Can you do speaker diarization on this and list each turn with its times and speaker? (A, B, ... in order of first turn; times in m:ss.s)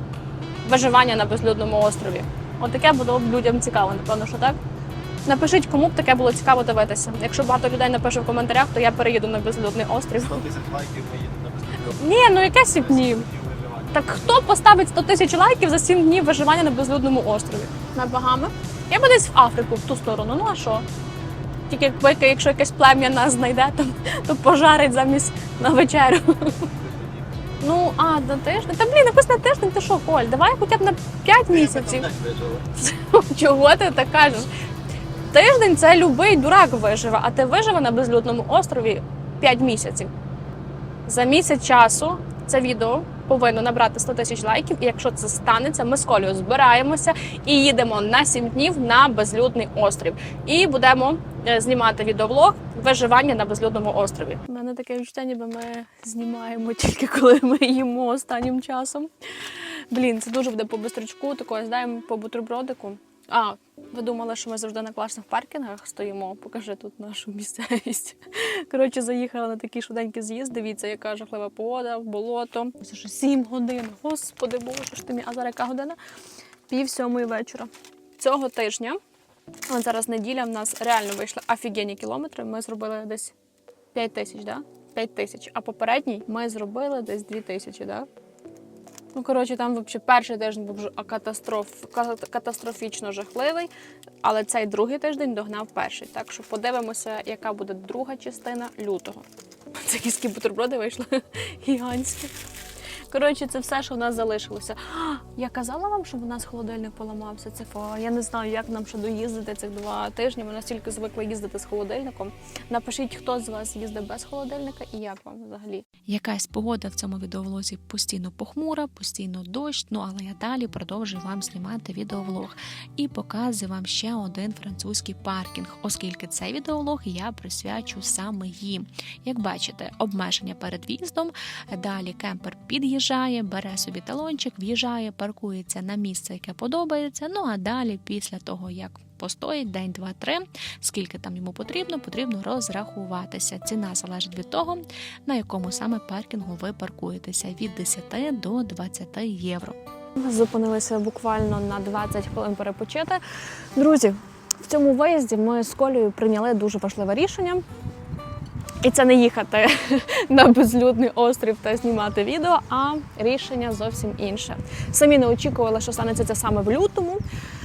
0:00.6-0:04.6 A
0:05.2-0:10.5 A
0:10.3-0:14.1 B
0:12.0-0:13.3 A
0:13.9-0:20.8 A
0:21.7-0:26.6 A
0:26.7-0:27.4 B
0:27.6-0:32.1 A
0:31.6-0:32.6 B
0:32.8-0:34.5 A
0:35.3-0:40.1 A
0:41.1-1:16.0 A
1:16.7-1:19.0 A
1:19.7-1:23.3 A
1:23.9-1:28.1 A
1:29.1-1:39.2 A
1:39.7-1:42.3 A
1:43.1-1:55.8 A
1:56.1-2:29.8 C
2:30.2-2:33.2 A
2:33.8-2:37.6 A
2:38.8-2:47.2 A